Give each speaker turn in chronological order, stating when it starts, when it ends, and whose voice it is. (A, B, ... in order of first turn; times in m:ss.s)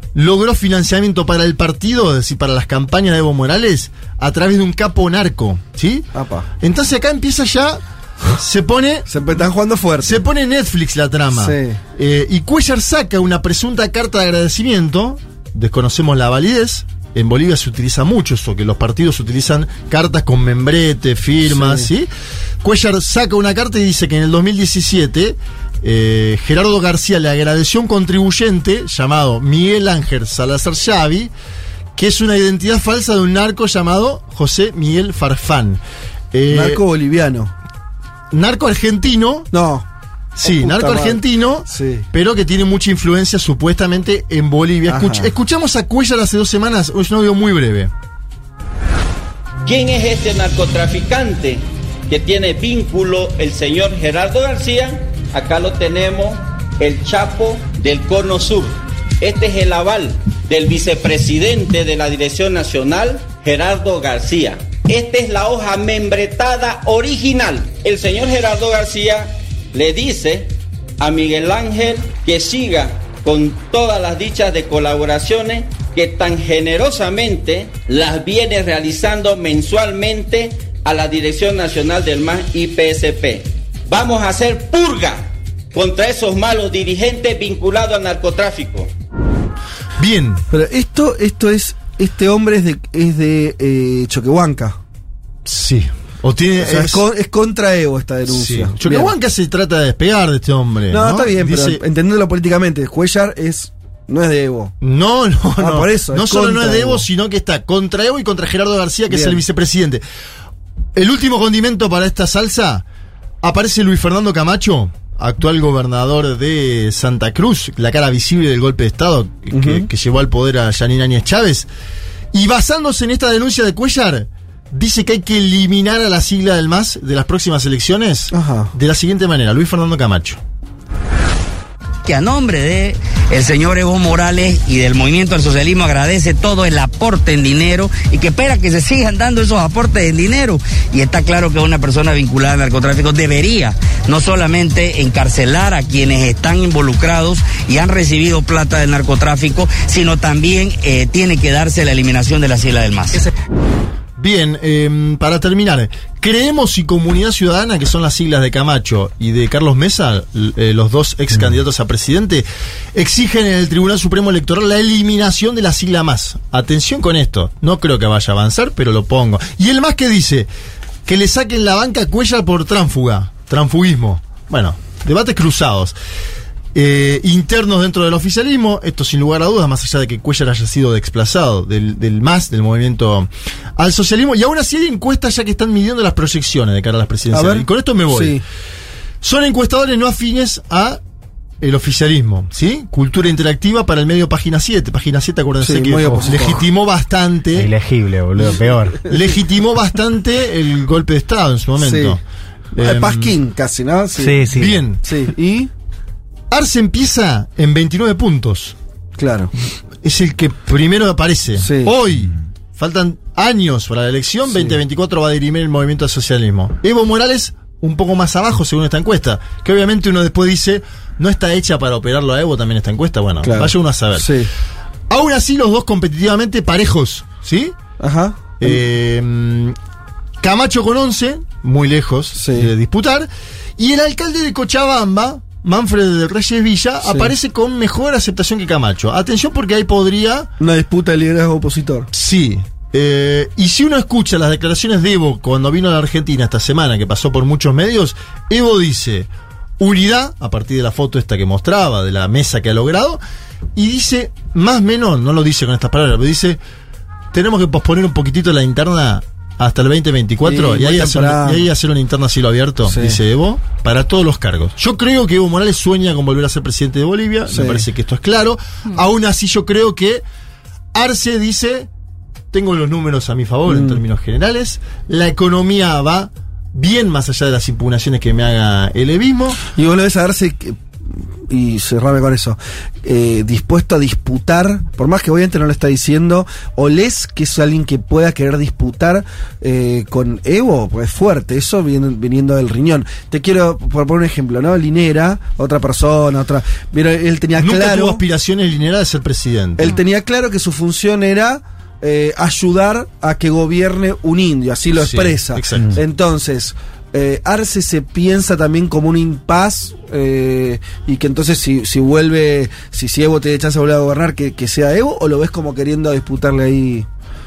0:00.2-0:06.1 A
0:06.1-0:06.5 B
0:06.6-0:09.1 A
0:09.1-0:10.2 B
0:10.0-0:22.1 A
0:11.3-0:11.8 B
0:21.4-0:21.9 B
0:22.6-0:31.3 A
0:32.0-0:35.8 A
0:36.3-0:36.8 A
0:36.5-0:37.5 B
0:38.3-0:39.5 A
0:39.5-0:39.9 B
0:40.4-0:47.9 A
0:40.4-0:42.1 B
0:44.9-0:45.3 B
0:49.7-1:28.9 C
1:30.0-1:30.4 A
1:30.5-1:34.8 B
1:35.5-1:37.0 A
1:36.6-1:39.1 B
1:38.3-1:41.8 A
1:40.9-1:44.7 B
1:44.8-1:50.0 A
1:45.6-1:47.1 B
1:49.1-1:49.4 B
1:51.0-1:52.8 A
1:53.4-2:01.7 A
1:59.5-1:59.9 B
2:02.3-2:10.4 A
2:08.3-2:08.7 B
2:12.0-2:33.3 D
2:34.2-2:50.5 A
2:51.1-2:56.0 A
2:56.8-3:08.4 A
3:07.3-3:08.4 B
3:09.2-3:11.0 A
3:11.6-3:17.7 A
3:15.6-3:16.6 B
3:17.6-3:19.0 E
3:19.1-3:22.2 A
3:21.8-3:22.2 B
3:22.7-3:24.4 B
3:22.8-3:23.4 A
3:24.2-3:24.8 E
3:24.5-3:25.0 A
3:25.0-3:25.7 B
3:26.5-3:28.8 A
3:29.2-3:29.5 B
3:30.0-3:44.4 A
3:31.6-3:31.9 B
3:34.5-3:34.8 B
3:43.4-3:44.5 B
3:45.1-3:47.7 A
3:48.0-3:48.8 B
3:48.6-3:49.8 A
3:50.4-4:00.5 A
3:52.4-3:52.7 B
3:57.0-3:57.3 B
4:00.6-4:02.1 B
4:02.1-4:13.2 A
4:13.8-4:16.6 A
4:17.3-4:30.2 A
4:20.4-4:21.7 B
4:22.9-4:23.2 B
4:27.5-4:27.9 B
4:31.0-4:31.9 A
4:32.5-4:39.6 A
4:33.7-4:34.0 B
4:39.7-4:40.8 B
4:41.5-4:58.2 B
4:57.6-5:00.0 A
4:59.8-5:17.1 B
5:05.0-5:06.0 A